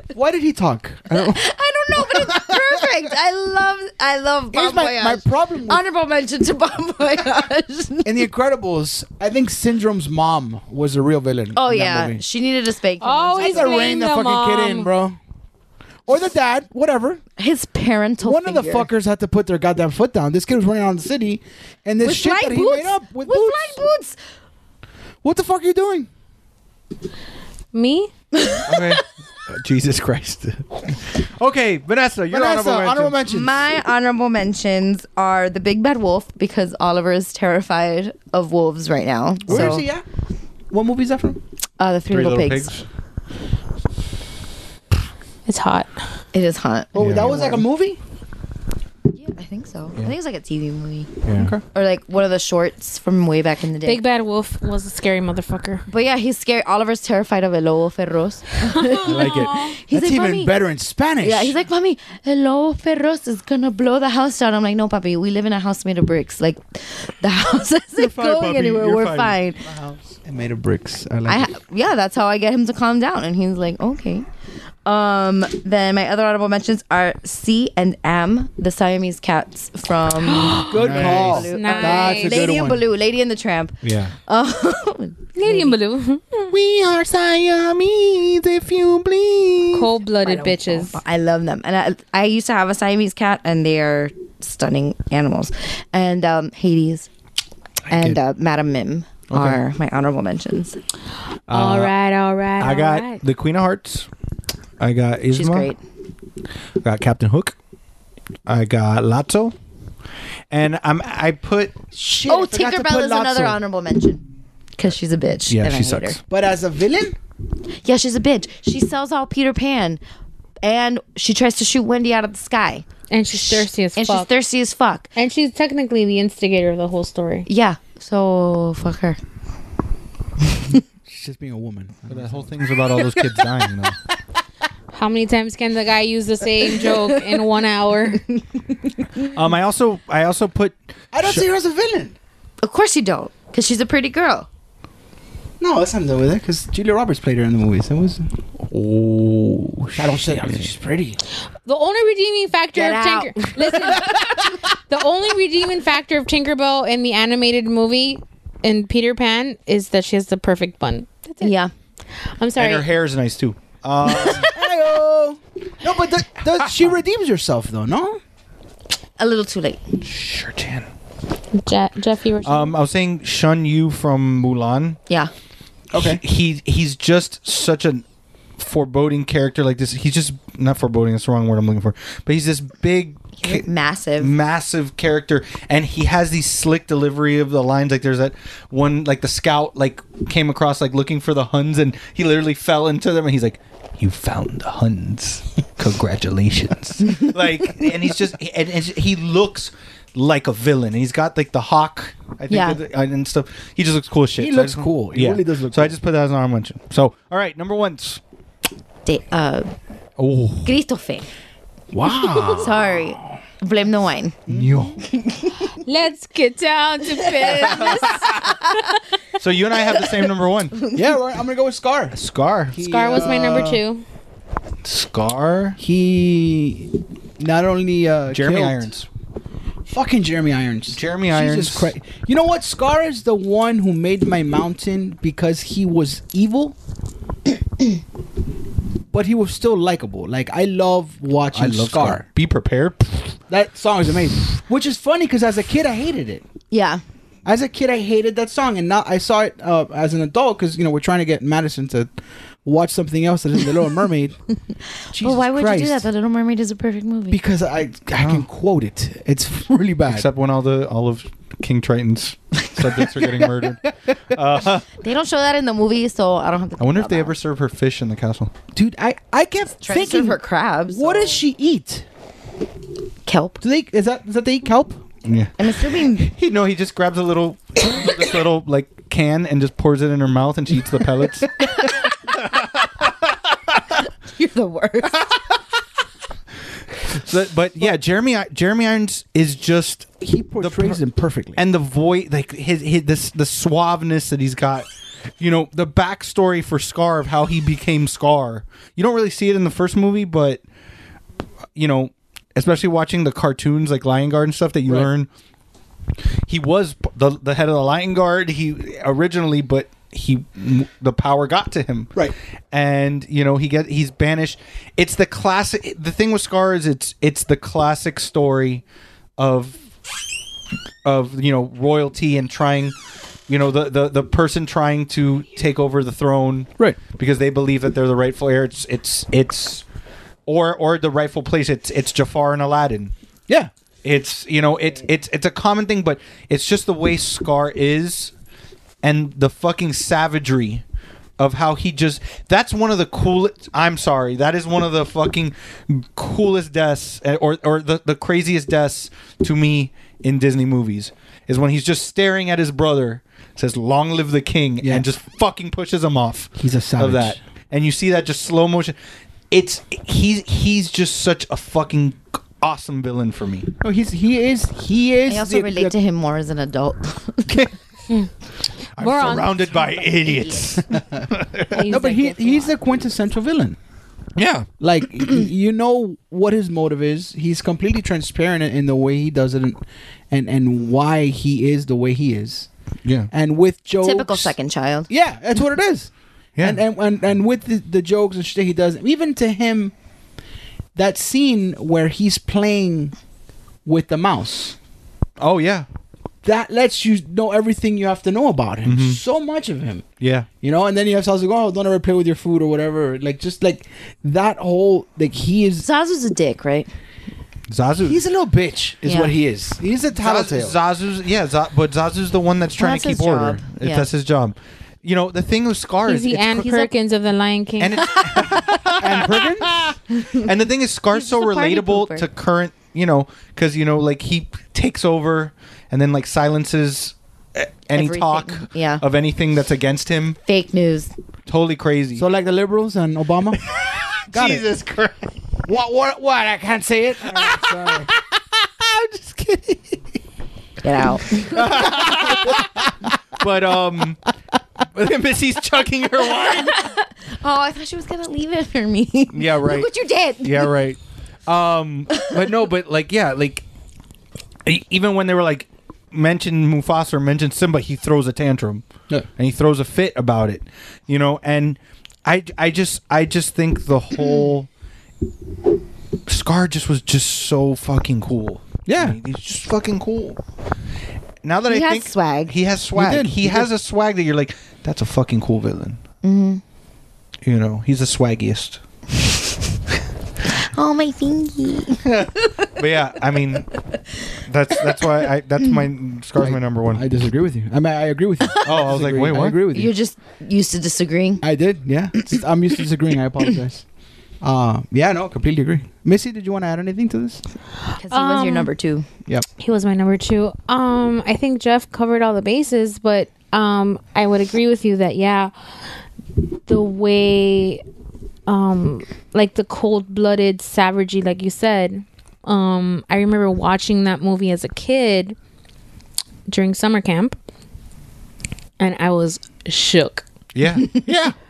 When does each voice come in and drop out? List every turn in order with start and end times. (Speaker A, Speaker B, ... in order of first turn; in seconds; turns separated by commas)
Speaker A: 0.1-3.0, Speaker B: 1.1-8.3, Speaker A: 4.5-5.8, Speaker A: 8.0-12.2, Speaker B: 11.5-13.8, Speaker C: 13.0-14.9, Speaker A: 13.4-15.2, Speaker A: 16.1-17.2, Speaker B: 17.4-18.9, Speaker A: 18.2-23.8, Speaker B: 22.0-24.2, Speaker A: 25.2-26.1, Speaker C: 27.7-28.1, Speaker B: 28.3-29.0, Speaker D: 28.6-33.2, Speaker A: 32.3-33.6, Speaker B: 33.2-39.8, Speaker A: 39.5-40.0, Speaker D: 39.5-39.8, Speaker A: 40.7-41.4, Speaker B: 41.8-42.7, Speaker D: 42.1-42.8, Speaker C: 45.5-45.9, Speaker B: 46.3-47.6, Speaker A: 46.9-48.0, Speaker D: 47.0-47.5, Speaker B: 49.1-51.1, Speaker D: 51.2-51.6, Speaker B: 51.7-54.0, Speaker C: 53.8-55.8, Speaker B: 55.9-60.5, Speaker C: 58.6-59.7, Speaker D: 59.0-59.6, Speaker A: 59.9-61.5, Speaker B: 61.2-69.6, Speaker D: 68.0-70.0, Speaker A: 70.0-71.5, Speaker B: 71.3-74.2, Speaker B: 74.8-85.8, Speaker C: 80.2-82.4, Speaker A: 80.7-82.8, Speaker D: 80.8-81.5, Speaker D: 83.8-84.1, Speaker C: 85.3-86.5, Speaker D: 86.5-89.9, Speaker C: 89.7-91.0, Speaker B: 90.2-97.1, Speaker D: 97.9-98.2, Speaker B: 97.9-100.8, Speaker D: 99.3-99.6, Speaker D: 101.5-101.9, Speaker C: 101.5-103.2, Speaker D: 102.6-104.1, Speaker D: 104.8-105.7, Speaker B: 105.3-105.8, Speaker D: 106.8-107.5, Speaker D: 108.5-109.5, Speaker D: 110.5-111.8, Speaker A: 111.9-113.6, Speaker B: 112.3-114.2, Speaker B: 114.8-116.2, Speaker D: 115.5-116.2, Speaker A: 116.3-117.2, Speaker B: 117.8-120.0, Speaker B: 120.6-125.1, Speaker C: 123.1-124.3, Speaker C: 125.2-127.5, Speaker B: 127.5-129.2, Speaker A: 131.1-133.1, Speaker D: 132.1-134.0, Speaker C: 134.9-138.2, Speaker D: 139.3-141.4, Speaker A: 141.1-142.2, Speaker B: 142.6-144.5, Speaker A: 145.6-148.3, Speaker D: 148.7-150.5, Speaker A: 149.9-151.2, Speaker C: 151.7-161.5, Speaker B: 152.7-154.1, Speaker B: 161.4-161.7, Speaker C: 162.4-162.9, Speaker D: 162.6-164.5, Speaker A: 164.4-168.2, Speaker B: 169.2-169.8, Speaker D: 170.0-170.9, Speaker C: 171.6-172.8, Speaker D: 172.4-175.0, Speaker A: 175.9-176.2, Speaker D: 175.9-178.0, Speaker D: 178.6-208.2, Speaker B: 183.4-184.3, Speaker B: 202.5-202.8, Speaker A: 204.4-206.0, Speaker B: 209.1-209.7, Speaker D: 210.2-210.8, Speaker B: 210.6-211.3, Speaker A: 211.9-213.2, Speaker B: 212.5-214.4, Speaker A: 214.5-215.0, Speaker D: 214.5-215.0, Speaker B: 215.2-215.7, Speaker C: 215.8-218.4, Speaker B: 217.4-218.7, Speaker D: 217.5-218.5, Speaker D: 219.4-220.8, Speaker A: 220.9-222.2, Speaker D: 222.1-222.8, Speaker A: 222.7-223.8, Speaker C: 222.8-224.0, Speaker D: 224.8-225.8, Speaker A: 225.8-228.9, Speaker D: 228.3-229.1, Speaker A: 229.9-236.7, Speaker D: 230.9-231.9, Speaker A: 239.1-242.2, Speaker D: 241.5-243.4, Speaker A: 243.5-246.4, Speaker B: 246.7-247.0, Speaker A: 247.4-252.1, Speaker A: 252.6-254.4, Speaker A: 255.1-256.1, Speaker B: 255.2-257.4, Speaker A: 257.3-260.3, Speaker D: 258.2-258.4, Speaker D: 260.1-264.9, Speaker A: 262.8-264.4, Speaker B: 265.0-267.3, Speaker D: 266.8-268.5, Speaker A: 268.7-272.1, Speaker B: 269.8-271.4, Speaker B: 273.2-273.6, Speaker A: 273.6-275.0, Speaker D: 275.2-283.1, Speaker B: 275.6-276.3, Speaker B: 284.3-285.2, Speaker D: 285.2-285.4, Speaker D: 287.1-291.0, Speaker A: 290.2-291.6, Speaker D: 291.6-294.9, Speaker D: 295.4-300.6, Speaker D: 301.7-305.3, Speaker A: 304.9-305.1, Speaker D: 306.5-312.1, Speaker D: 312.7-318.8, Speaker D: 319.4-319.8, Speaker D: 321.0-322.9, Speaker D: 323.5-329.8, Speaker D: 330.4-333.1, Speaker D: 334.0-338.3, Speaker D: 339.0-340.8, Speaker D: 341.4-358.9, Speaker A: 354.8-355.1, Speaker A: 356.6-357.4, Speaker D: 359.5-363.7, Speaker A: 363.8-365.9, Speaker B: 365.3-367.6, Speaker D: 369.0-371.8, Speaker C: 369.0-369.9, Speaker B: 370.3-370.6, Speaker A: 370.9-373.8, Speaker C: 371.7-372.7, Speaker D: 374.4-374.7, Speaker A: 374.8-379.8, Speaker A: 380.3-382.7, Speaker D: 383.0-383.3, Speaker A: 383.3-384.5, Speaker B: 384.0-385.1, Speaker A: 385.1-389.9, Speaker A: 390.9-393.1, Speaker A: 393.8-394.8, Speaker D: 395.4-395.9, Speaker A: 396.4-400.1, Speaker D: 398.8-399.2, Speaker D: 400.2-400.5, Speaker A: 400.6-405.9, Speaker B: 405.8-406.9, Speaker D: 407.7-408.2, Speaker A: 408.0-410.8, Speaker B: 409.0-409.3, Speaker D: 410.1-416.9, Speaker B: 412.8-414.1, Speaker C: 416.1-418.1, Speaker D: 417.8-430.4, Speaker A: 419.0-419.8, Speaker B: 421.1-422.3, Speaker B: 427.9-429.0, Speaker B: 430.4-431.1, Speaker D: 431.5-432.2, Speaker A: 432.1-433.6, Speaker D: 433.6-435.3, Speaker A: 434.3-434.6, Speaker A: 435.6-438.1, Speaker D: 437.3-440.0, Speaker B: 440.8-441.6, Speaker D: 441.2-444.2, Speaker D: 444.8-446.8, Speaker B: 446.6-450.8, Speaker D: 449.3-453.6, Speaker D: 454.6-464.7, Speaker D: 466.3-470.4, Speaker A: 468.9-469.2, Speaker D: 471.4-476.0, Speaker B: 471.7-472.5, Speaker A: 472.9-473.7, Speaker B: 476.2-476.6, Speaker D: 477.4-478.8, Speaker B: 480.7-482.1, Speaker D: 482.0-483.8, Speaker D: 484.3-487.1, Speaker A: 486.4-489.9, Speaker D: 488.6-489.6, Speaker B: 489.7-491.4, Speaker A: 491.4-493.8, Speaker A: 494.4-497.4, Speaker B: 498.0-499.1, Speaker C: 498.1-498.7, Speaker C: 499.6-505.5, Speaker C: 506.7-507.8, Speaker C: 508.5-515.4, Speaker C: 516.5-517.4, Speaker C: 518.8-520.2, Speaker D: 520.5-521.3